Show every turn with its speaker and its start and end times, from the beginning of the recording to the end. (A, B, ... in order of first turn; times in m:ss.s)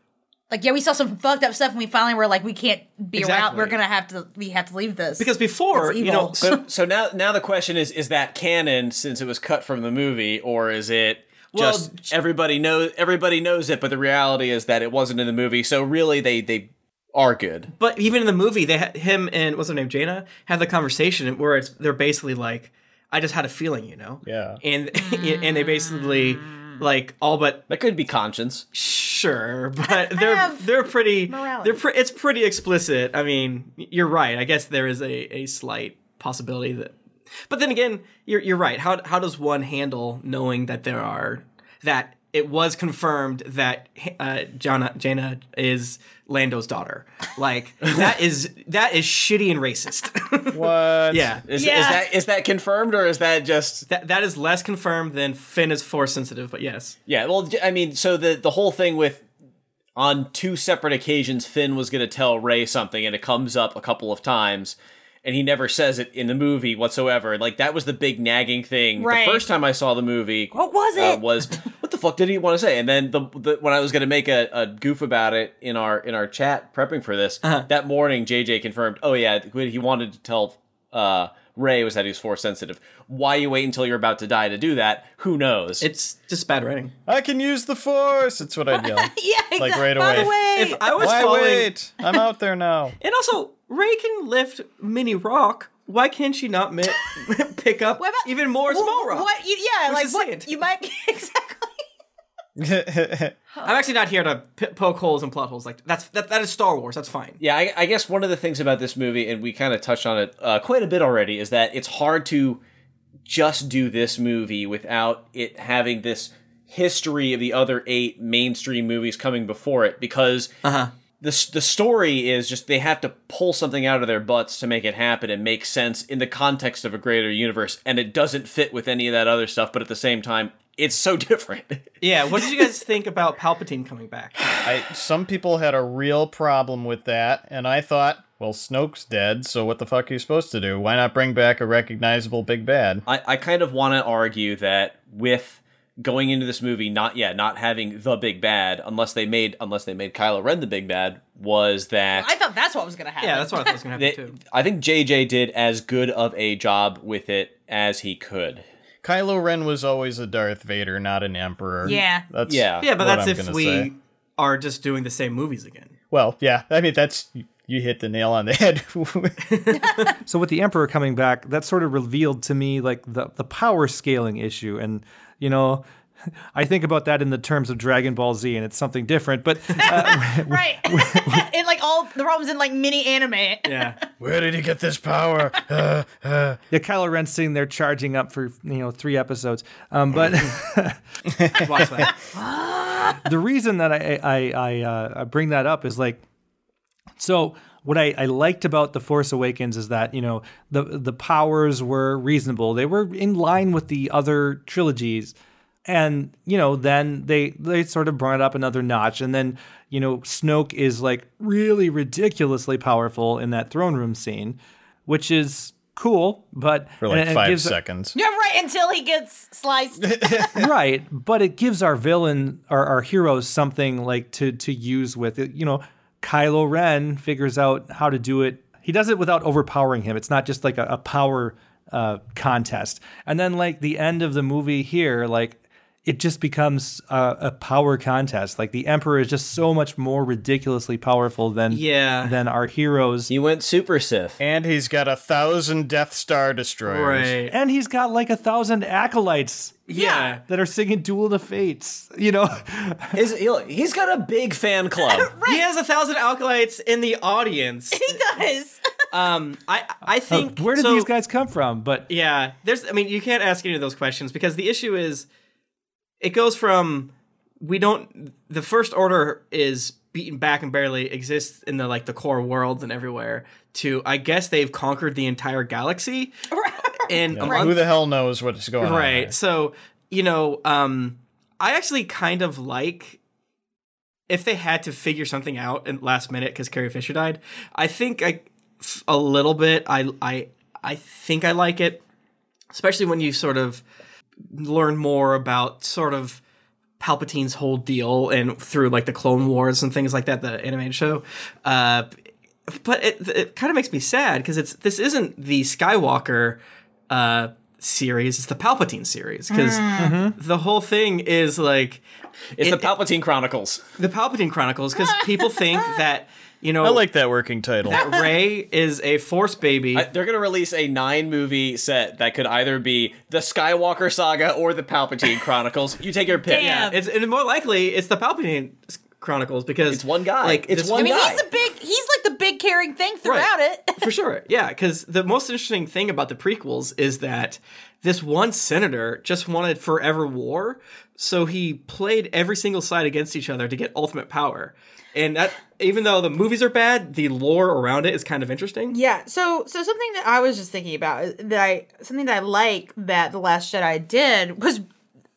0:00.5-0:06.6 A
0:03.1-0:03.7 B
0:05.2-0:06.4 B
0:06.4-0:17.7 C
0:11.5-0:12.1 B
0:17.8-0:27.6 B
0:24.2-0:24.6 D
0:25.0-0:26.7 A
0:27.7-0:28.6 C
0:28.7-0:37.0 B
0:29.8-0:30.7 A
0:31.3-0:31.8 A
0:37.5-0:51.4 B
0:50.5-0:51.4 D
0:51.5-0:53.9 C
0:51.5-0:52.0 A
0:53.9-0:57.0 B
0:57.1-0:59.2 C
1:00.0-1:25.9 C
1:09.0-1:09.4 A
1:10.5-1:11.2 A
1:17.4-1:17.7 B
1:25.8-1:26.9 B
1:27.1-1:30.4 D
1:28.7-1:31.2 A
1:30.1-1:31.7 B
1:30.9-1:33.0 D
1:33.0-1:39.3 B
1:38.0-1:41.8 A
1:39.9-1:40.5 B
1:42.6-1:43.4 D
1:43.6-1:47.4 B
1:47.4-1:52.6 C
1:53.3-2:00.5 C
2:00.6-2:00.9 B
2:01.2-2:11.9 C
2:12.0-2:14.6 B
2:14.6-2:23.0 D
2:23.1-2:32.3 C
2:32.2-2:33.8 A
2:33.2-2:34.4 B
2:34.0-2:38.6 C
2:39.0-2:43.9 D
2:41.8-2:42.3 A
2:42.5-2:42.9 C
2:42.8-2:46.0 B
2:46.1-2:49.4 D
2:49.5-2:50.1 B
2:50.2-2:55.8 E
2:56.6-3:01.4 E
2:59.8-3:04.0 A
3:03.6-3:04.0 B
3:04.2-3:06.6 D
3:06.7-3:11.0 E
3:11.5-3:12.1 B
3:12.8-3:13.2 A
3:13.2-3:16.2 E
3:17.2-3:25.4 E
3:25.9-3:37.8 E
3:37.0-3:38.2 D
3:38.2-3:40.5 A
3:40.0-3:40.7 D
3:40.6-4:03.3 E
4:01.7-4:02.4 B
4:03.3-4:04.4 C
4:04.4-4:07.4 D
4:06.9-4:07.5 B
4:07.5-4:09.8 E
4:09.9-4:10.4 B
4:09.9-4:10.4 A
4:10.5-4:13.2 E
4:13.1-4:15.4 C
4:15.0-4:15.6 A
4:15.4-4:18.2 B
4:17.9-4:18.8 A
4:19.1-4:21.1 B
4:20.3-4:22.1 E
4:22.1-4:25.3 B
4:26.2-4:36.4 B
4:36.5-4:37.7 A
4:37.0-4:37.8 B
4:37.3-4:39.3 D
4:38.8-4:43.2 B
4:44.3-4:52.0 B
4:52.7-4:53.8 B
4:54.5-4:56.4 B
4:57.0-5:02.2 B
5:02.7-5:12.0 B
5:09.5-5:10.2 A
5:10.0-5:10.4 E
5:12.6-5:13.8 C
5:12.6-5:12.9 B
5:14.0-5:17.0 B
5:15.1-5:15.8 A
5:16.8-5:18.1 D
5:17.8-5:20.1 B
5:18.0-5:18.3 A
5:19.9-5:26.8 C
5:26.5-5:31.4 B
5:26.5-5:27.0 A
5:29.9-5:31.4 C
5:31.0-5:34.1 A
5:33.2-5:48.9 B
5:48.9-5:54.8 A